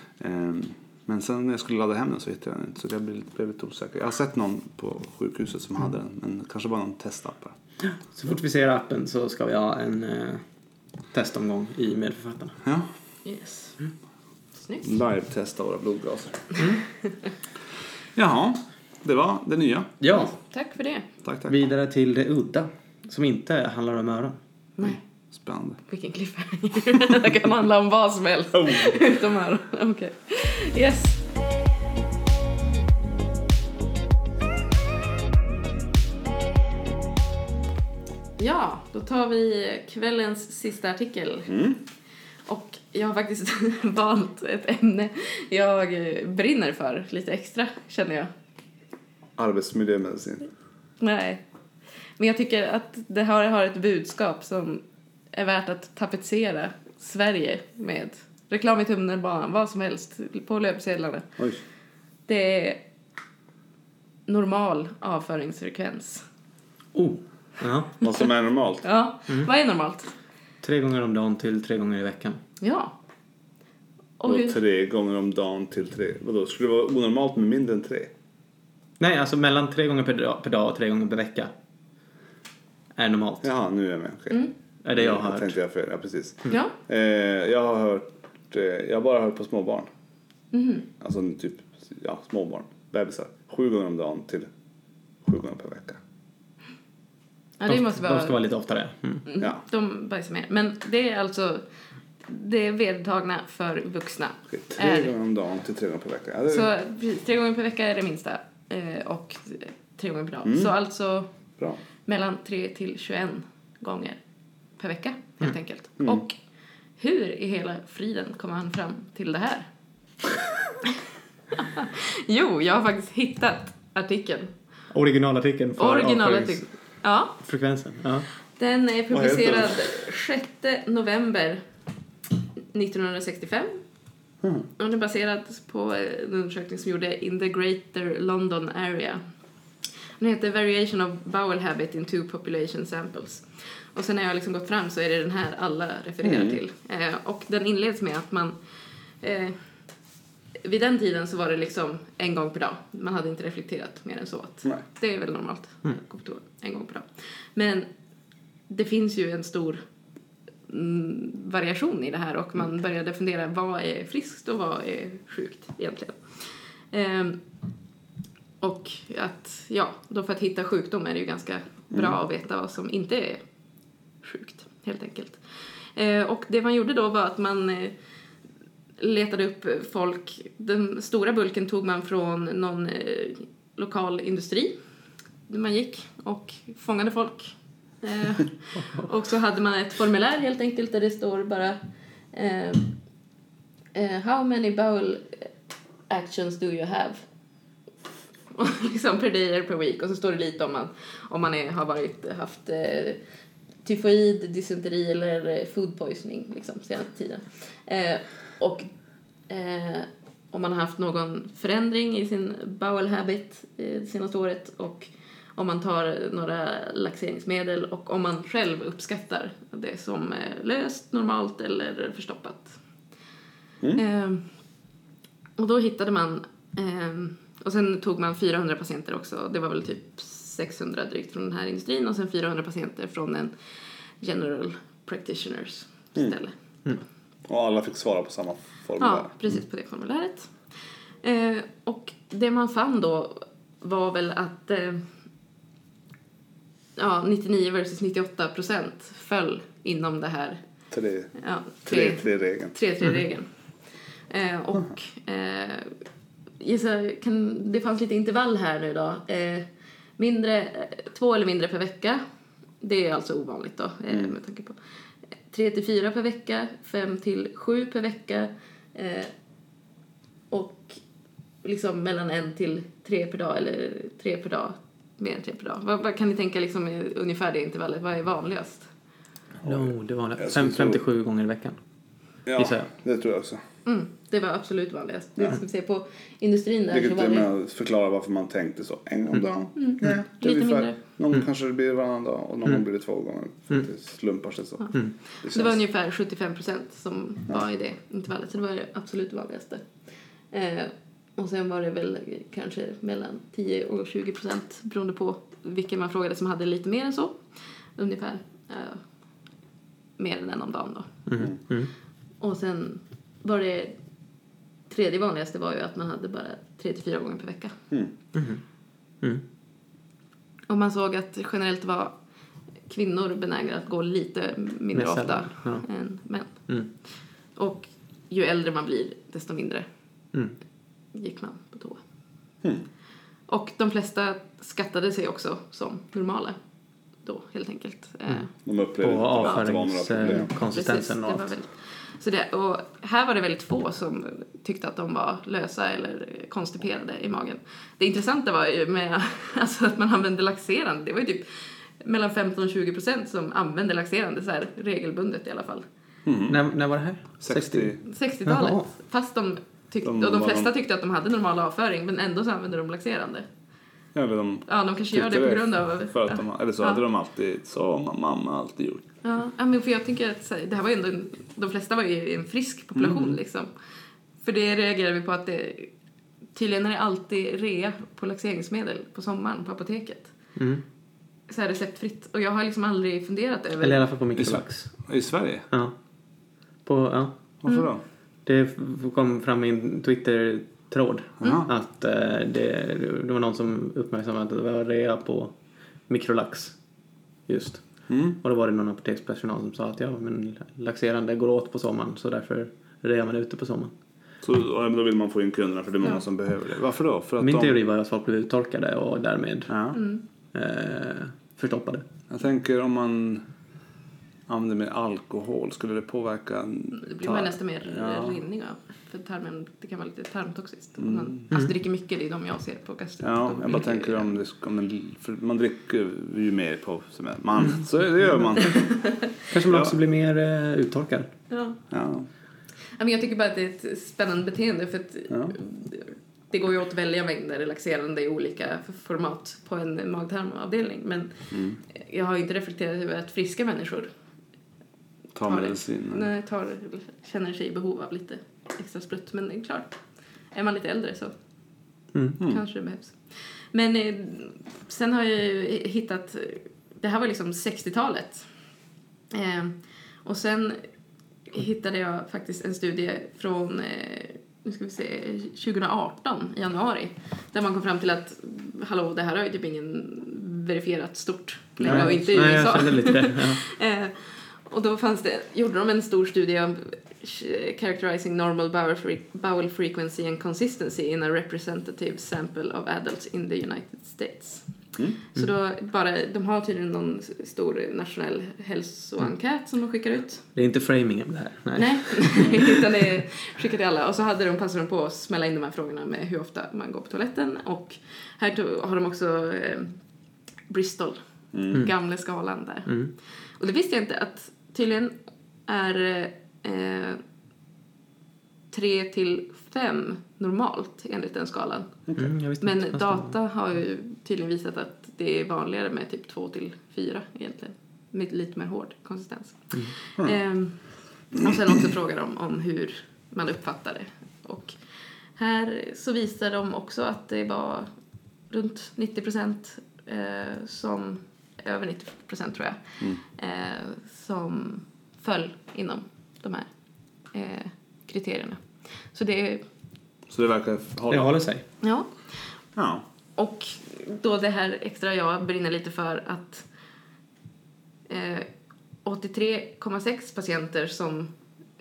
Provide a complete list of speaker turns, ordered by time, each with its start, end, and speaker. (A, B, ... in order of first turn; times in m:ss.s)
0:00.2-0:07.6 A
0:08.1-0:10.4 B
0:11.1-0:12.6 B
0:13.2-0:13.8 C
0:14.6-0:14.9 C
0:14.8-0:16.6 A
0:18.2-0:19.9 A
0:20.0-0:20.3 B
0:20.1-0:21.1 C
0:21.2-0:21.5 A
0:21.5-0:24.4 B
0:25.3-0:25.8 A
0:25.9-0:31.2 C
0:28.6-0:28.9 A
0:38.4-0:41.5 C
0:41.5-0:41.8 A
0:42.5-0:48.3 C
0:49.4-0:50.5 A
0:51.0-0:51.4 C
0:52.2-1:01.3 C
1:02.3-1:02.8 C
1:04.3-1:06.2 C
1:07.0-1:08.0 B
1:08.0-1:08.9 A
1:08.8-1:10.1 C
1:10.6-1:12.4 B
1:12.6-1:12.9 C
1:14.2-1:14.6 C
1:14.2-1:18.1 A
1:19.0-1:21.5 B
1:23.0-1:23.5 B
1:23.4-1:29.9 A
1:24.8-1:25.5 B
1:26.5-1:26.8 C
1:30.5-1:30.9 C
1:31.0-1:34.5 A
1:35.2-1:36.0 A
1:37.6-1:38.4 C
1:37.7-1:39.2 B
1:39.3-1:41.6 C
1:42.2-1:45.1 C
1:44.5-1:46.7 A
1:46.5-1:51.3 C
1:50.4-1:50.7 A
1:52.0-1:54.2 C
1:54.8-1:56.4 C
1:56.0-1:56.2 A
1:57.0-1:59.7 C
2:01.5-2:04.5 C
2:04.9-2:06.6 B
2:05.8-2:07.4 C
2:07.4-2:08.3 B
2:08.6-2:11.6 C
2:09.1-2:10.0 A
2:12.7-2:13.8 C
2:14.4-2:14.7 A
2:14.8-2:19.2 C
2:20.2-2:28.6 C
2:26.2-2:26.6 A
2:29.2-2:29.6 C
2:30.6-2:37.9 C
2:38.7-2:39.8 C
2:40.7-2:47.4 C
2:48.6-2:53.4 C
2:54.2-2:55.4 C
2:56.0-2:58.0 C
2:59.0-3:04.8 C
3:05.5-3:11.8 C
3:12.3-3:13.0 C
3:13.9-3:15.5 C
3:16.1-3:17.2 C
3:18.5-3:23.2 C
3:23.8-3:28.9 C
3:29.5-3:42.8 C
3:43.9-3:44.4 C
3:45.6-3:53.5 C
3:54.2-3:56.6 C
3:57.5-3:59.3 A
3:59.0-4:00.5 C
4:01.2-4:05.0 C
4:07.0-4:10.6 C
4:10.9-4:11.3 A
4:11.4-4:13.5 C
4:11.8-4:12.8 A
4:14.3-4:16.0 C
4:16.6-4:22.2 C
4:22.8-4:24.8 C
4:25.5-4:29.3 C
4:30.5-4:31.0 C
4:31.6-4:38.9 C
4:39.6-4:41.8 B
4:39.6-4:41.0 A
4:42.5-4:43.6 A
4:42.6-4:42.9 B
4:43.9-4:47.5 C
4:46.9-4:55.8 A
4:49.8-4:51.0 C
4:54.8-4:59.8 C
5:00.5-5:07.4 C
5:08.0-5:09.0 C
5:10.2-5:11.1 C
5:11.3-5:11.9 B
5:12.4-5:14.0 C
5:14.9-5:17.8 C
5:18.3-5:18.6 B
5:20.7-5:22.1 C
5:22.9-5:26.5 C
5:25.0-5:25.9 B
5:27.6-5:29.9 C
5:31.1-5:32.0 C
5:33.5-5:36.6 C
5:37.2-5:38.5 C
5:38.6-5:40.5 A
5:39.0-5:41.4 B
5:40.2-5:51.5 C
5:52.0-5:55.8 C
5:56.2-5:56.6 A
5:56.5-5:58.9 B
5:57.4-5:58.0 A
5:58.0-6:03.5 C
6:00.0-6:00.7 A
6:04.2-6:09.1 A
6:04.7-6:07.0 C
6:09.2-6:13.7 C
6:13.0-6:13.4 A
6:14.4-6:15.9 C
6:16.6-6:20.3 C
6:20.6-6:20.8 B
6:21.5-6:24.0 C
6:23.8-6:24.9 B
6:24.4-6:25.7 A
6:26.8-6:27.4 B
6:27.6-6:28.0 A
6:28.5-6:35.5 B
6:31.4-6:31.7 A
6:36.1-6:36.8 B
6:37.5-6:43.9 B
6:38.1-6:38.4 A
6:44.4-6:47.8 A
6:47.4-6:49.8 B
6:49.7-6:50.0 A
6:49.9-6:50.2 C
6:50.5-6:52.0 B
6:52.3-6:53.4 A
6:54.5-6:58.4 A
6:56.9-7:04.4 C
7:01.0-7:01.3 A
7:03.2-7:08.9 A
7:09.5-7:11.3 B
7:09.7-7:09.9 A
7:11.5-7:11.8 C
7:11.9-7:12.3 A
7:13.0-7:24.1 C
7:15.3-7:15.6 A
7:21.5-7:21.8 A
7:25.4-7:26.3 A
7:25.4-7:30.0 C
7:30.5-7:31.3 C
7:32.4-7:33.2 C
7:33.7-7:38.5 C
7:39.3-7:40.8 C
7:41.5-8:04.7 C
7:51.8-7:52.3 A
7:51.8-7:53.6 B
8:05.4-8:10.4 C
8:10.6-8:12.8 B
8:11.8-8:20.0 C
8:20.7-8:23.0 C
8:21.5-8:21.8 A
8:23.6-8:25.1 C
8:25.7-8:27.2 C
8:28.7-8:32.0 C
8:32.2-8:33.3 B
8:32.6-8:40.8 C
8:41.3-8:44.8 C
8:41.4-8:41.8 A
8:45.4-8:47.9 C
8:48.5-8:56.7 C
8:57.3-8:59.6 C
9:00.3-9:01.3 A
9:01.1-9:01.6 B
9:01.8-9:02.4 C
9:02.8-9:03.0 A
9:03.4-9:06.7 C
9:08.1-9:08.5 C
9:09.0-9:11.3 C